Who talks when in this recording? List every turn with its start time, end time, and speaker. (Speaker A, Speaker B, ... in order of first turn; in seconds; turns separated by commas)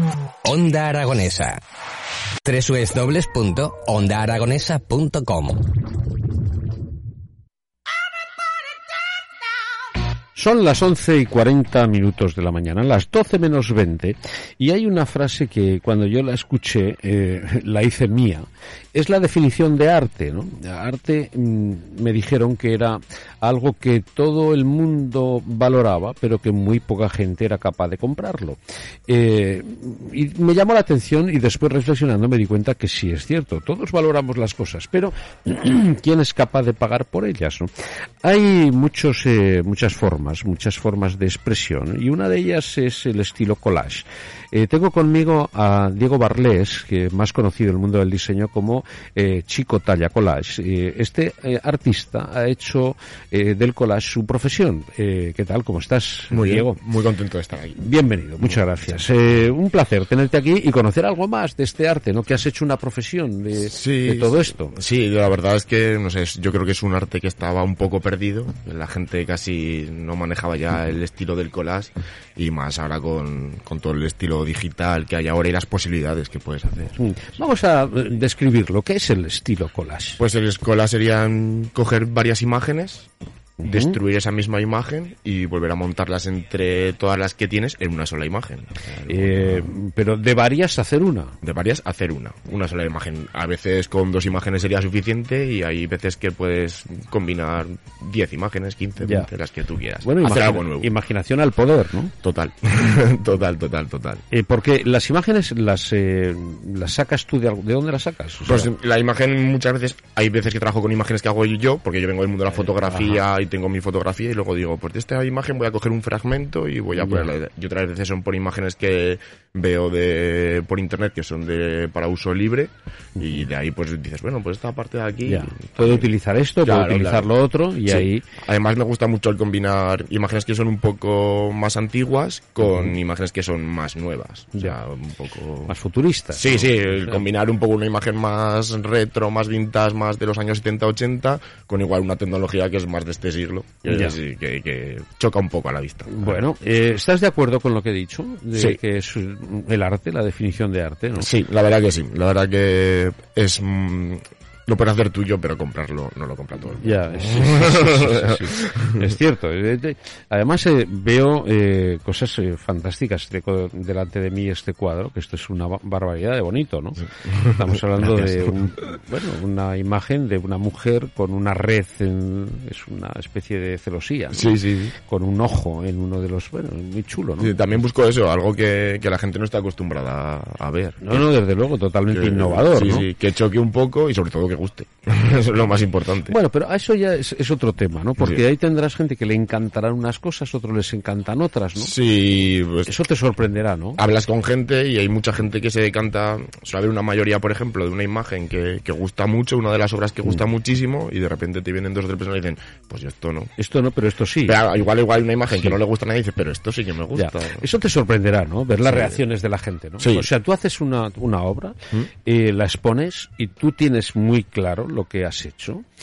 Speaker A: 0.5-1.6, Speaker A: 2.5-5.6, Speaker B: 10.3-37.7, Speaker B: 38.2-56.8, Speaker C: 56.3-57.9, Speaker B: 57.8-64.8, Speaker C: 58.4-58.9, Speaker C: 63.7-77.0, Speaker B: 77.0-80.2, Speaker C: 80.2-83.1, Speaker C: 83.6-89.8, Speaker B: 83.6-84.0, Speaker B: 89.1-91.4, Speaker C: 91.4-100.9, Speaker B: 99.0-99.3, Speaker B: 100.0-102.1, Speaker C: 102.2-104.2, Speaker B: 104.3-108.7, Speaker C: 108.5-126.1, Speaker B: 112.6-113.2, Speaker B: 117.0-117.3, Speaker B: 123.2-123.4, Speaker B: 125.3-128.3, Speaker C: 126.6-127.3, Speaker C: 127.8-135.7, Speaker B: 135.7-137.2, Speaker C: 136.3-146.4, Speaker B: 143.9-144.2, Speaker B: 146.1-151.3, Speaker C: 148.6-148.8, Speaker C: 151.2-159.1, Speaker B: 156.8-177.7, Speaker C: 168.0-168.4, Speaker C: 174.3-174.9, Speaker C: 177.4-181.3, Speaker B: 181.0-183.1, Speaker C: 182.1-186.3, Speaker B: 186.3-191.9, Speaker C: 188.2-188.4, Speaker C: 191.8-192.9, Speaker B: 192.9-194.0, Speaker C: 194.0-203.5, Speaker B: 203.6-204.6, Speaker C: 204.4-207.7, Speaker B: 207.1-215.8, Speaker C: 208.8-209.2, Speaker C: 210.0-210.3